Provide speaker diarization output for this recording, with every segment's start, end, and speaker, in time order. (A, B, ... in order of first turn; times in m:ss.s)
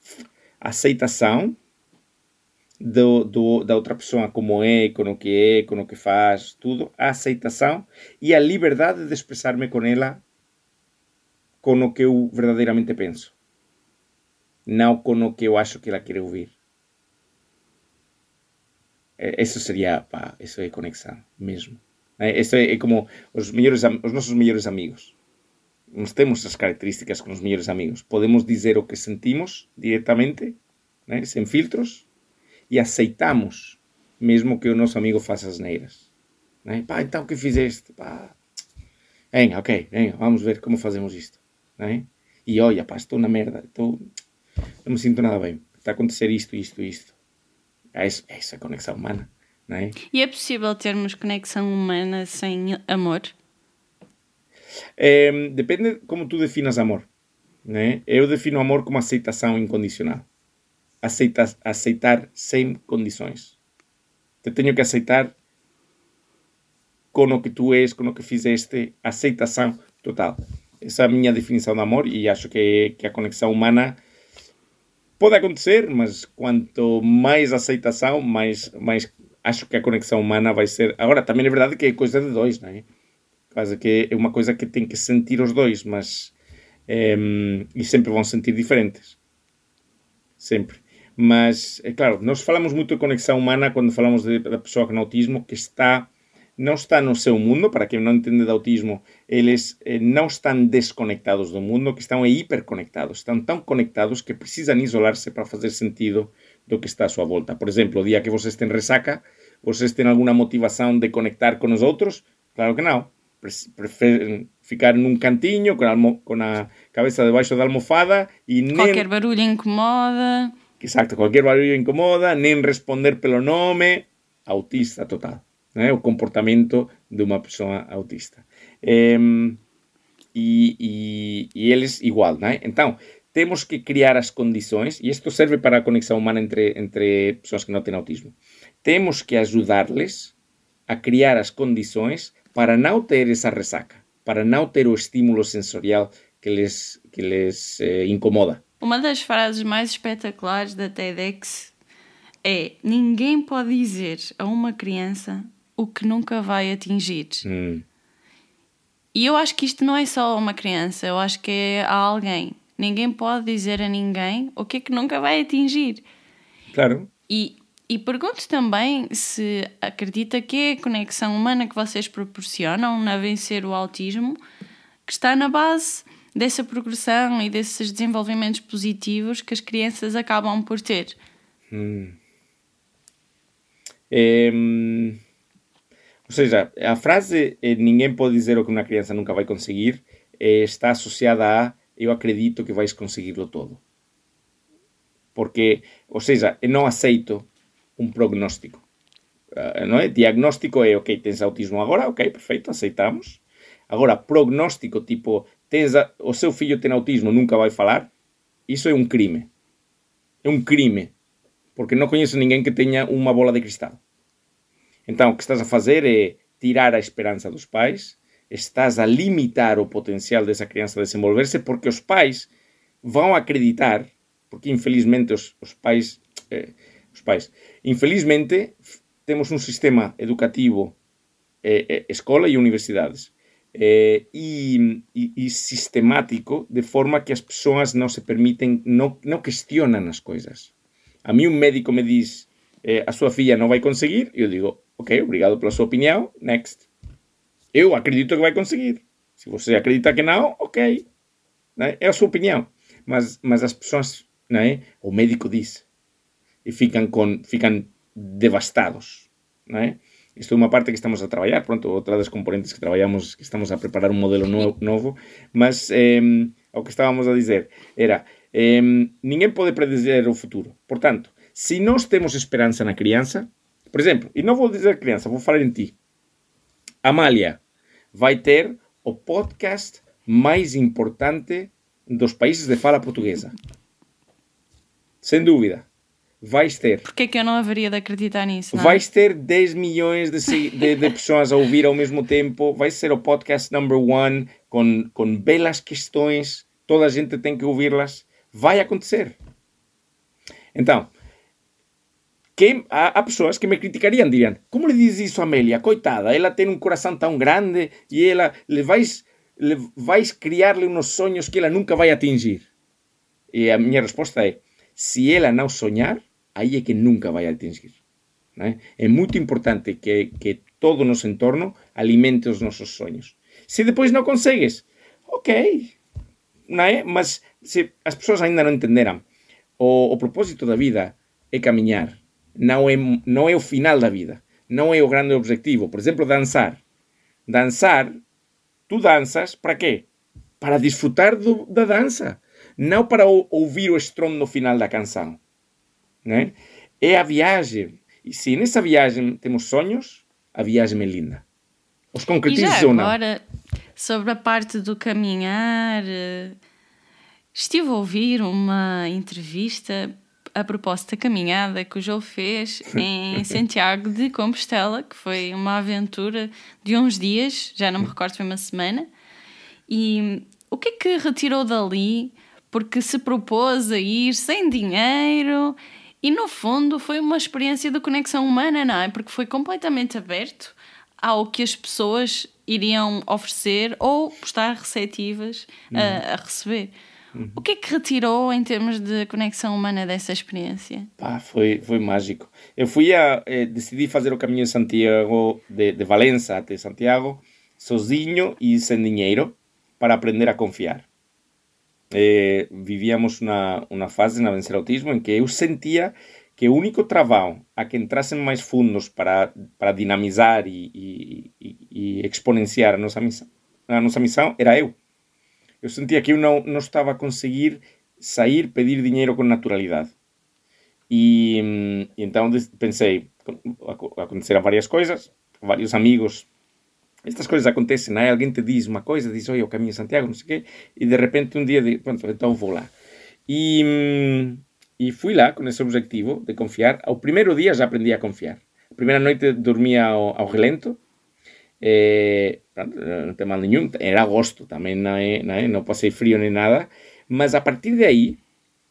0:00.6-0:01.6 A
0:02.8-0:10.2 A
0:11.6-0:13.3 A
0:14.6-0:16.5 A
0:19.2-0:25.1 A
0:25.9-0:32.1 A
0:32.7-0:36.0 A
0:36.6-0:38.4 A
0:39.3-0:44.0 A
0:44.8-0:47.1 A
0:47.9-0:50.0 A
0:50.1-0:53.3 B
0:55.0-0:57.1 A
0:57.6-1:00.2 A
1:01.0-1:03.6 A
1:04.4-1:05.3 A
1:07.1-1:14.0 A
1:15.2-1:22.8 A
1:23.5-1:26.3 A
1:26.9-1:29.2 A
1:30.4-1:59.1 A
1:58.7-2:00.6 B
2:00.8-2:09.6 A
2:10.3-2:20.3 A
2:20.9-2:28.6 A
2:28.8-2:31.7 B
2:32.4-2:37.4 B
2:37.4-2:37.8 A
2:39.1-2:46.0 B
2:46.7-2:47.1 A
2:47.3-2:54.4 B
2:55.0-3:01.2 B
3:01.7-3:02.2 A
3:04.1-3:05.2 A
3:06.3-3:13.8 A
3:15.3-3:18.8 A
3:19.6-3:28.1 A
3:28.7-3:29.5 A
3:30.4-3:31.1 A
3:31.8-3:34.0 A
3:35.1-3:42.5 A
3:43.0-3:51.0 A
3:51.6-4:00.7 A
4:01.2-4:06.9 A
4:07.7-4:11.0 A
4:11.8-4:15.8 A
4:16.6-4:35.9 A
4:37.0-4:37.6 A
4:38.1-4:43.5 A
4:45.2-4:45.9 A
4:46.4-4:47.0 A
4:47.0-4:49.0 B
4:48.7-4:59.4 A
5:00.7-5:01.1 A
5:02.6-5:12.7 A
5:13.5-5:17.9 A
5:18.6-5:26.0 A
5:26.7-5:29.2 A
5:29.8-5:36.8 A
5:37.5-5:38.1 A
5:38.9-5:40.1 A
5:40.6-5:45.4 A
5:46.2-5:51.4 A
5:52.1-5:53.1 A
5:52.5-5:53.4 B
5:54.0-5:56.6 B
5:57.5-6:09.1 B
6:09.9-6:26.9 B
6:25.9-6:26.2 A
6:27.3-6:27.6 A
6:27.6-6:31.1 B
6:31.2-6:41.1 A
6:42.1-6:55.0 A
6:55.8-7:00.1 A
7:01.1-7:06.5 A
7:07.2-7:12.9 A
7:13.5-7:21.0 A
7:21.8-7:28.4 A